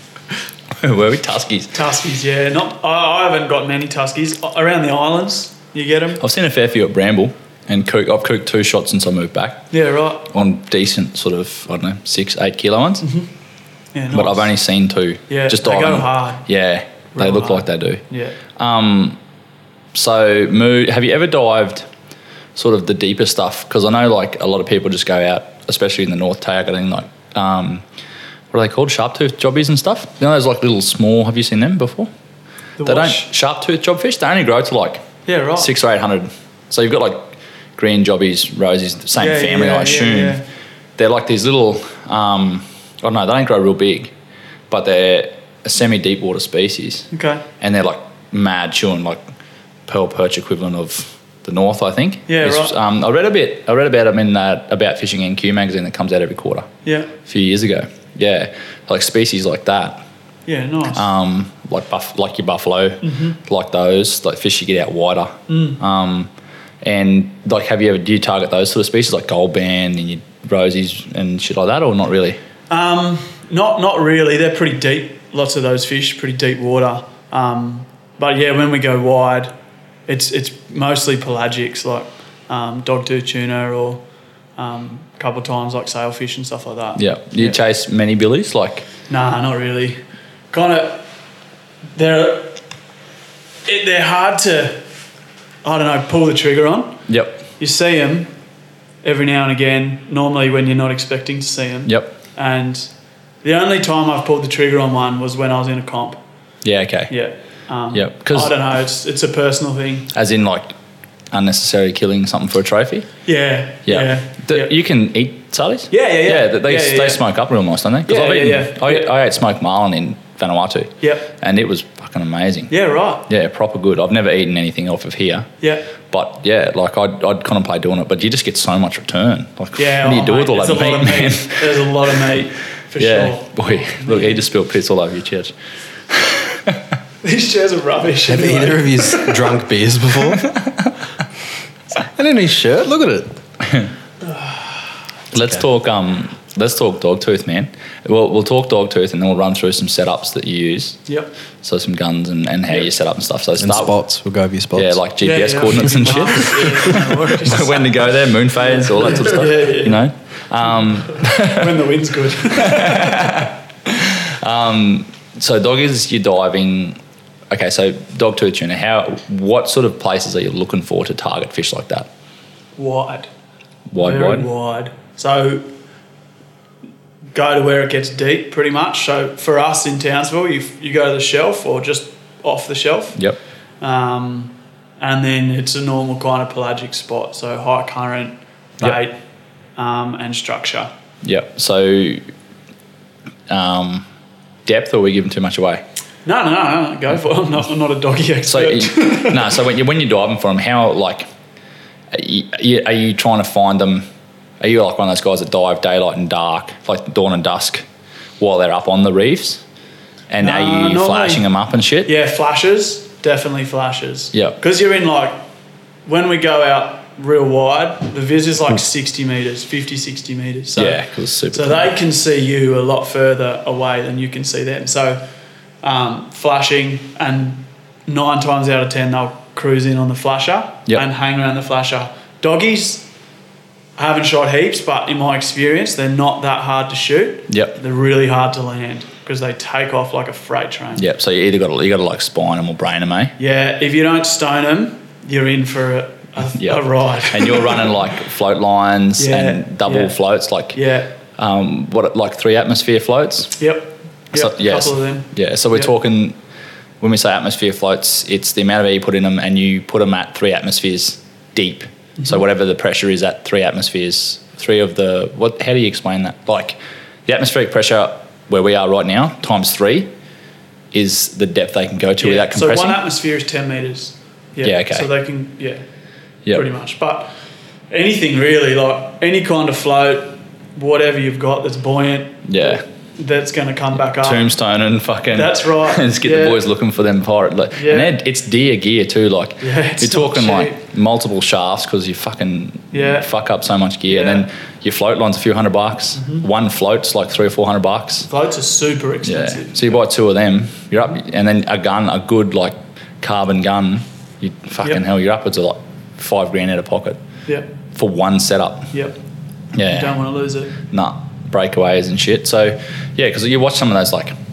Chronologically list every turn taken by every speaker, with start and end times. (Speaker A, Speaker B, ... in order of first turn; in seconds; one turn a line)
Speaker A: 0.8-1.7
Speaker B: 1.7-6.2
Speaker A: 6.2-9.7
Speaker B: 9.7-10.3
Speaker A: 10.3-13.1
Speaker B: 13.0-13.3
Speaker B: 13.9-14.5
Speaker A: 14.1-18.0
Speaker B: 15.3-16.4
Speaker B: 17.1-18.4
Speaker A: 18.6-19.2
Speaker A: 19.9-21.9
Speaker A: 22.6-27.8
Speaker A: 28.5-32.1
Speaker B: 32.8-33.3
Speaker A: 32.8-35.0
Speaker B: 35.2-35.7
Speaker A: 35.6-40.4
Speaker B: 39.2-40.4
Speaker A: 41.0-44.1
Speaker A: 44.7-47.1
Speaker B: 47.1-47.4
Speaker A: 47.6-49.2
Speaker A: 49.9-56.7
Speaker B: 52.3-52.7
Speaker B: 56.8-57.1
Speaker A: 57.2-60.0
Speaker B: 60.5-61.1
Speaker A: 60.9-66.3
Speaker B: 63.0-63.4
Speaker B: 65.5-65.8
Speaker A: 66.8-72.4
Speaker B: 72.7-79.5
Speaker B: 80.1-84.0
Speaker B: 84.6-87.6
Speaker A: 87.0-88.8
Speaker B: 89.1-90.0
Speaker B: 90.5-91.0
Speaker B: 91.9-92.6
Speaker B: 93.7-94.8
Speaker B: 95.6-97.0
Speaker A: 97.1-97.4
Speaker B: 97.6-98.3
Speaker B: 99.0-102.9
Speaker A: 101.8-102.1
Speaker B: 103.4-106.2
Speaker A: 106.6-107.1
Speaker B: 107.1-110.1
Speaker A: 107.9-108.5
Speaker A: 110.1-110.7
Speaker A: 111.3-113.1
Speaker B: 113.2-114.7
Speaker A: 113.8-122.7
Speaker B: 115.9-117.2
Speaker B: 118.0-119.1
Speaker B: 121.0-121.3
Speaker B: 122.7-123.2
Speaker A: 123.3-125.5
Speaker B: 125.6-125.8
Speaker A: 126.1-131.7
Speaker B: 129.8-134.4
Speaker A: 133.0-135.5
Speaker A: 136.1-136.8
Speaker B: 137.2-139.3
Speaker C: 138.2-140.4
Speaker C: 142.0-143.3
Speaker B: 144.2-144.7
Speaker A: 145.3-151.1
Speaker A: 151.6-153.9
Speaker C: 153.6-155.0
Speaker A: 154.7-161.8
Speaker B: 155.2-158.0
Speaker B: 158.6-160.0
Speaker B: 161.2-163.5
Speaker A: 162.6-167.0
Speaker A: 167.5-172.1
Speaker B: 172.8-173.3
Speaker A: 173.9-174.5
Speaker B: 174.0-175.7
Speaker B: 177.3-183.2
Speaker B: 183.8-189.2
Speaker B: 189.8-190.9
Speaker A: 191.2-192.2
Speaker A: 193.5-194.0
Speaker A: 194.7-195.8
Speaker B: 196.2-199.6
Speaker A: 198.5-201.3
Speaker A: 202.1-204.1
Speaker A: 204.6-207.8
Speaker A: 208.4-209.6
Speaker A: 210.3-212.1
Speaker B: 210.4-211.4
Speaker B: 212.0-215.4
Speaker A: 214.3-214.6
Speaker B: 216.1-221.0
Speaker A: 220.8-221.9
Speaker B: 221.5-225.2
Speaker B: 225.8-233.1
Speaker B: 234.0-241.0
Speaker A: 237.5-237.8
Speaker A: 241.0-243.3
Speaker B: 243.4-247.9
Speaker A: 246.5-250.8
Speaker B: 249.2-250.2
Speaker B: 250.7-251.1
Speaker A: 251.3-253.6
Speaker B: 253.6-255.9
Speaker A: 254.3-256.4
Speaker A: 257.0-270.1
Speaker A: 270.9-273.0
Speaker B: 272.2-275.8
Speaker A: 274.6-275.1
Speaker B: 276.5-277.3
Speaker B: 277.9-284.5
Speaker A: 282.5-282.8
Speaker A: 284.1-298.3
Speaker B: 285.3-286.6
Speaker B: 287.7-288.1
Speaker B: 289.6-290.8
Speaker B: 292.9-293.3
Speaker B: 294.1-294.5
Speaker B: 296.1-296.4
Speaker B: 298.3-300.0
Speaker A: 299.2-307.2
Speaker A: 307.9-308.9
Speaker A: 309.7-310.2
Speaker B: 309.9-310.7
Speaker A: 310.8-314.3